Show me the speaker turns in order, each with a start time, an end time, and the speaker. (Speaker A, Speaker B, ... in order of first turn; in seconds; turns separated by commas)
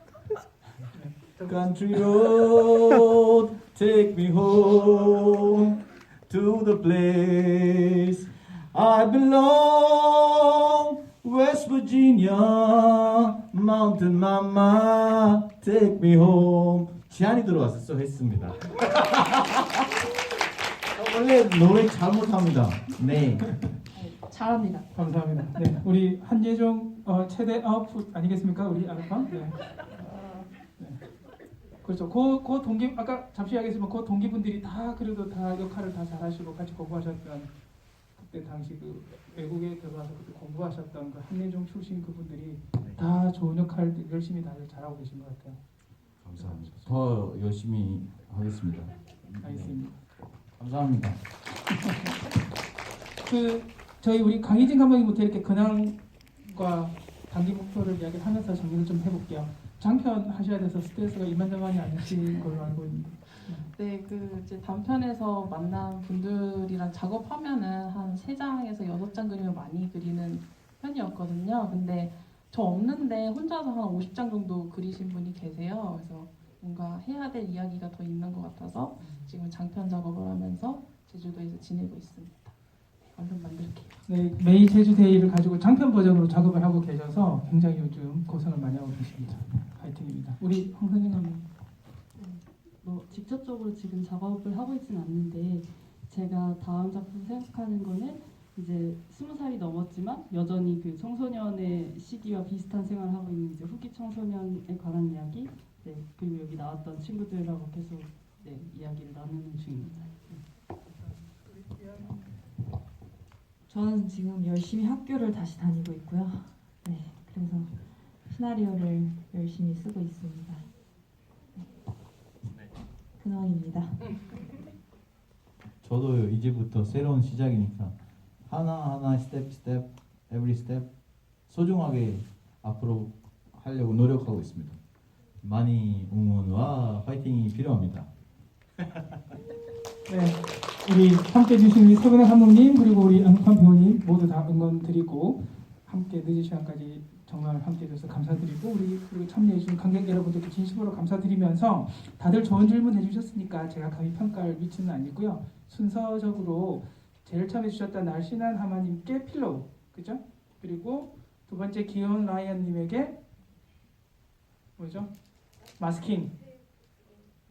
Speaker A: 0.9-1.6, Speaker B: 1.5-19.9, Speaker B: 20.9-23.7, Speaker C: 23.9-24.9, Speaker A: 24.9-29.8, Speaker C: 30.1-30.5, Speaker A: 30.8-31.0, Speaker A: 31.8-37.5, Speaker A: 38.2-45.6, Speaker B: 46.2-49.8, Speaker A: 46.4-47.0, Speaker A: 49.4-50.0, Speaker B: 50.6-51.2, Speaker A: 51.6-52.2, Speaker A: 53.2-63.7, Speaker D: 63.7-82.6, Speaker A: 79.0-79.3, Speaker D: 83.1-84.0, Speaker A: 84.1-91.5, Speaker E: 92.2-110.4, Speaker A: 111.0-112.4, Speaker C: 113.7-117.8, Speaker C: 118.3-120.7, Speaker C: 123.2-124.5, Speaker B: 125.8-130.9, Speaker B: 131.5-134.8, Speaker B: 135.4-138.1, Speaker B: 138.8-139.2, Speaker A: 140.1-163.2, Speaker A: 164.8-165.1, Speaker A: 165.8-166.4